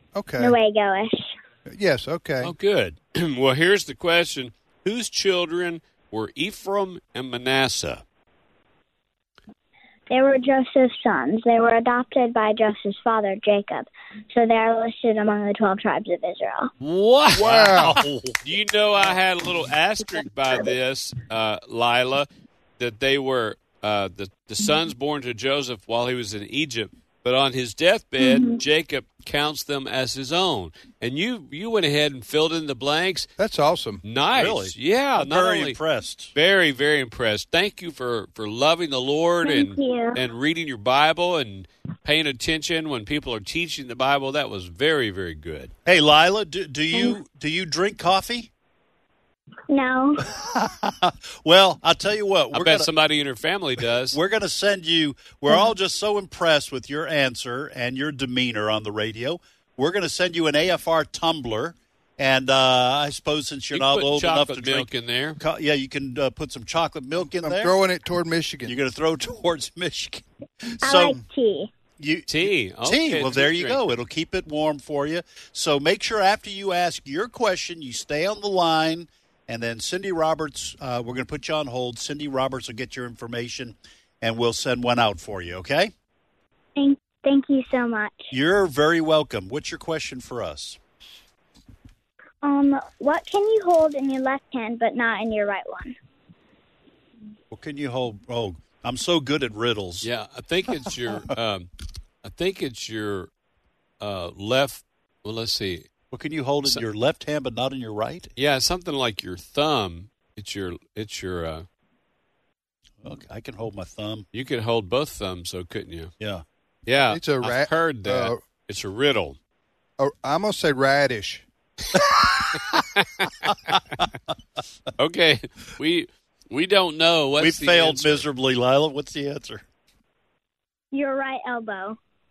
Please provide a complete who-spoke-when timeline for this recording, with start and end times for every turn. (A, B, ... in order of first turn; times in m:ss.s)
0:00.1-0:00.6 A
0:00.4-0:01.3 B
0:01.7-0:02.5 A
0:02.4-0:08.0 C
0:10.1-0:16.7 B
0:16.8-0:22.3 C
0:17.4-0:18.0 A
0:17.4-0:18.4 D
0:22.8-0:33.3 C
0:28.2-0:28.6 B
0:33.4-0:34.0 A
0:34.0-0:35.8 C
0:34.3-0:36.3 D
0:36.3-0:45.7 C
0:39.4-0:40.2 B
0:45.8-0:48.5 D
0:49.7-0:50.2 B
0:50.3-0:52.9 D
0:52.5-0:54.2 C
0:54.1-1:04.9 D
1:03.7-1:05.4 C
1:05.4-1:07.7 D
1:07.4-1:08.8 A
1:08.6-1:11.2 D
1:10.8-1:11.7 B
1:12.0-1:25.9 D
1:12.3-1:13.9 C
1:26.8-1:28.3 B
1:28.3-1:30.8 D
1:32.4-1:35.9 B
1:37.5-1:40.1 D
1:40.0-1:41.7 C
1:42.2-1:43.3 C
1:44.0-1:45.9 C
1:46.1-1:48.3 D
1:48.4-1:51.6 C
1:53.0-1:54.3 D
1:54.3-1:56.1 C
1:56.8-1:59.4 C
1:57.1-1:58.4 A
2:00.0-2:01.4 A
2:02.1-2:02.8 D
2:05.0-2:08.2 C
2:07.4-2:09.6 D
2:10.9-2:12.0 B